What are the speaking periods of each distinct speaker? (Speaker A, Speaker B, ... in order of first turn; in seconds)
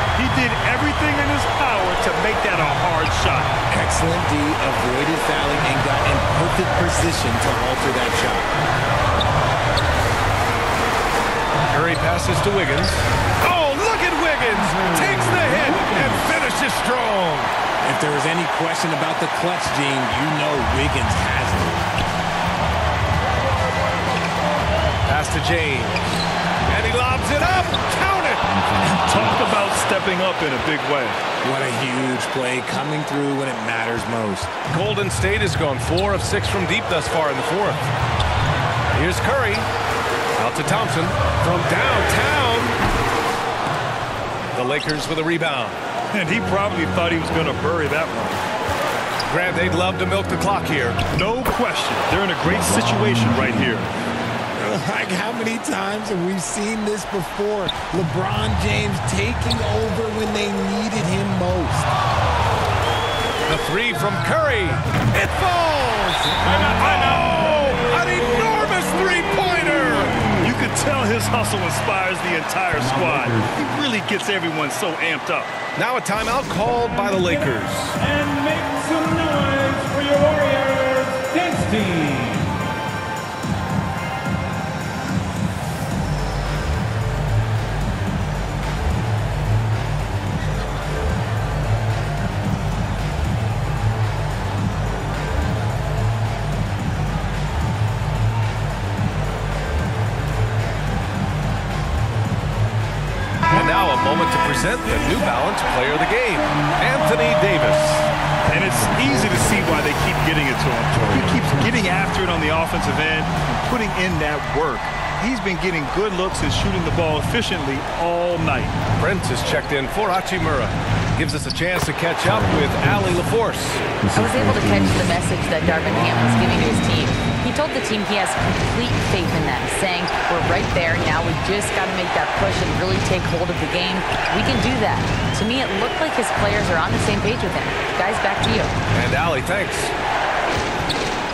Speaker A: 0.1-3.6, 28.8-31.2, 46.1-48.4, 51.1-53.9, 70.4-75.6, 108.5-118.8
Speaker B: 3.7-8.5, 17.8-21.8, 31.4-34.5, 54.6-61.9
Speaker C: 11.7-17.5, 25.1-26.0, 26.7-28.4, 34.7-37.9, 38.9-39.7, 40.4-42.7, 44.5-45.8, 49.3-51.0, 63.5-70.2, 75.8-78.0, 103.5-108.1, 119.0-123.9, 138.9-139.9
Speaker D: 14.7-16.3, 28.4-29.7, 52.5-53.8, 72.7-73.5, 78.0-82.5, 108.4-109.8, 110.9-111.8, 122.3-123.1, 124.0-126.8
Speaker E: 124.1-138.8